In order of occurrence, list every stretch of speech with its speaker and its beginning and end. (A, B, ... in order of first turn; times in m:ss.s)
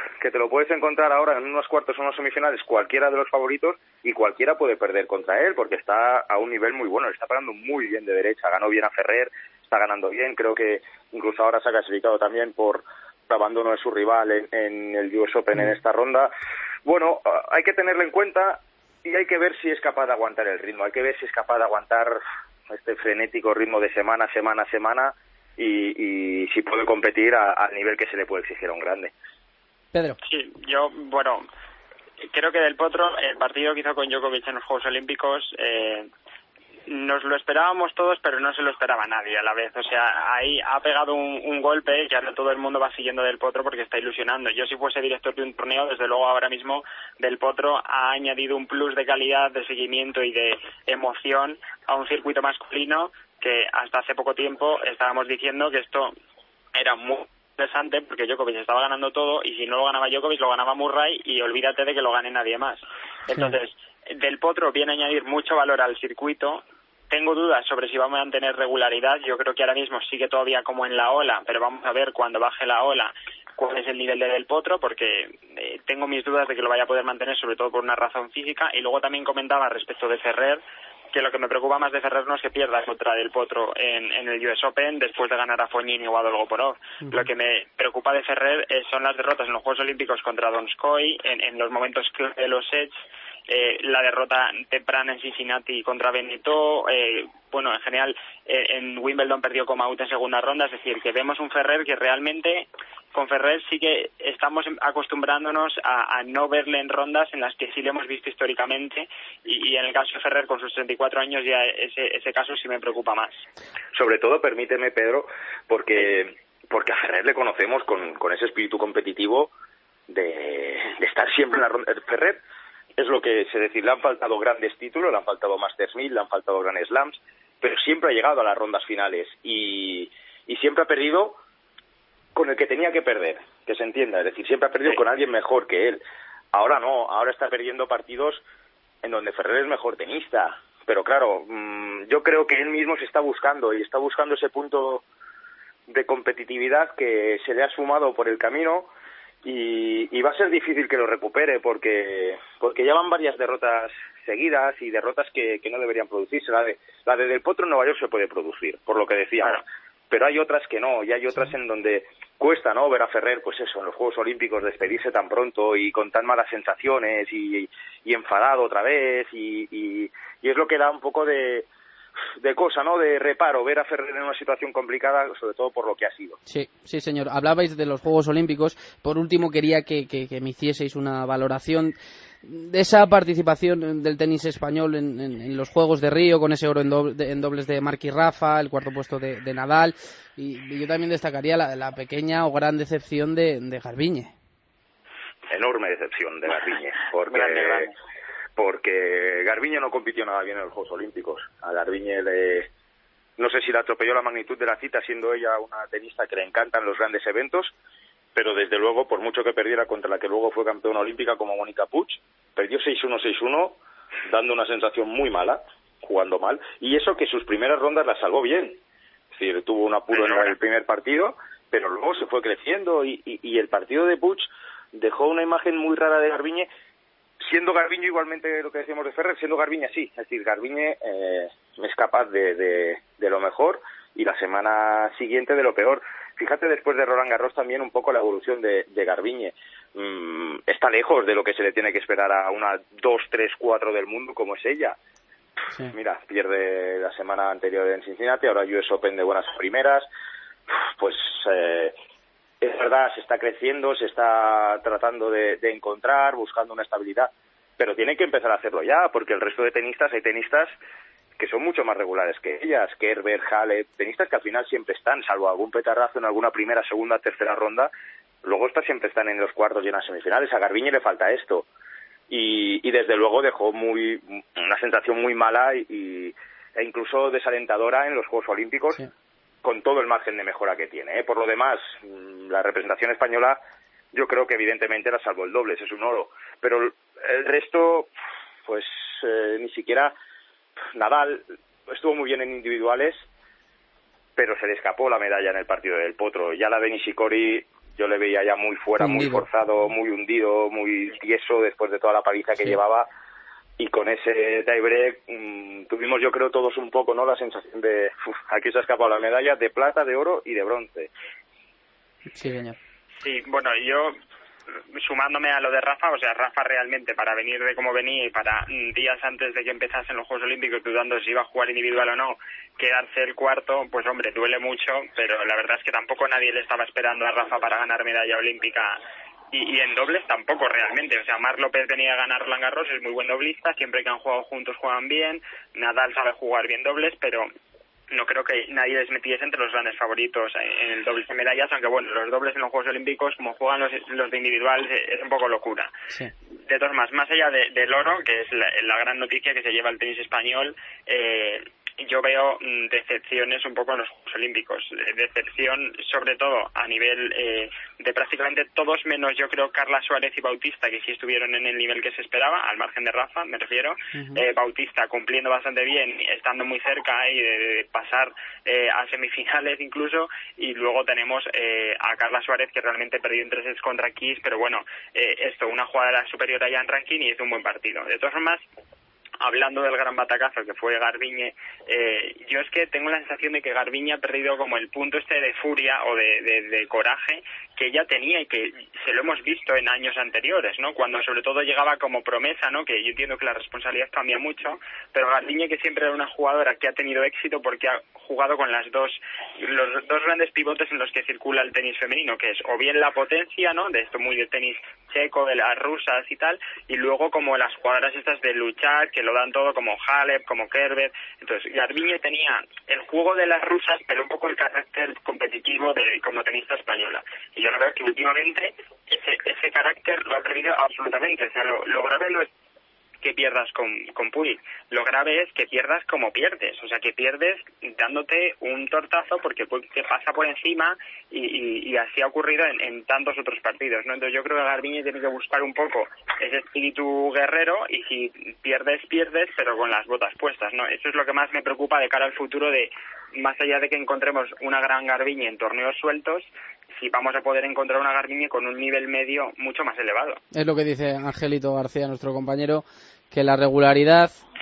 0:00.2-0:16.3 A
0:16.8-0:22.2 A
0:22.7-0:29.1 A
0:29.9-0:30.2 B
0:30.2-0:31.4 C
0:32.3-0:36.1 C
0:36.9-0:56.1 C
0:56.7-1:20.6 C
1:21.1-1:53.3 C
1:27.0-1:27.2 B
1:53.9-1:59.5 A
2:00.1-2:02.4 A
2:03.0-2:11.4 A
2:12.3-2:16.0 A
2:16.5-2:18.4 A
2:19.0-2:25.0 A
2:25.9-2:28.9 A
2:29.4-2:51.7 A
2:52.4-2:56.4 A
2:56.4-3:14.3 B
3:15.5-3:17.9 A
3:17.3-3:17.9 C
3:18.6-3:22.7 A
3:23.4-3:27.7 A
3:28.3-3:33.8 A
3:34.3-3:38.8 A
3:39.3-3:46.7 A
3:40.1-3:40.5 C
3:47.4-4:05.0 A
4:05.9-4:10.1 A
4:11.0-4:11.9 A
4:12.6-4:20.7 A
4:21.4-4:27.9 A
4:28.4-4:31.6 A
4:32.3-4:39.0 A
4:39.6-4:43.6 A
4:44.1-4:48.1 A
4:48.6-4:50.1 A
4:50.9-4:53.2 A
4:54.4-5:03.1 A
4:59.0-4:59.4 B
5:03.8-5:11.1 A
5:12.3-5:12.8 B
5:13.2-5:14.2 C
5:14.9-5:29.0 C
5:29.5-5:37.4 C
5:38.1-5:45.9 C
5:46.7-6:18.6 C
6:04.1-6:04.4 B
6:19.4-7:02.5 C
7:03.2-7:26.5 C
7:27.0-7:30.4 C
7:30.5-7:34.4 B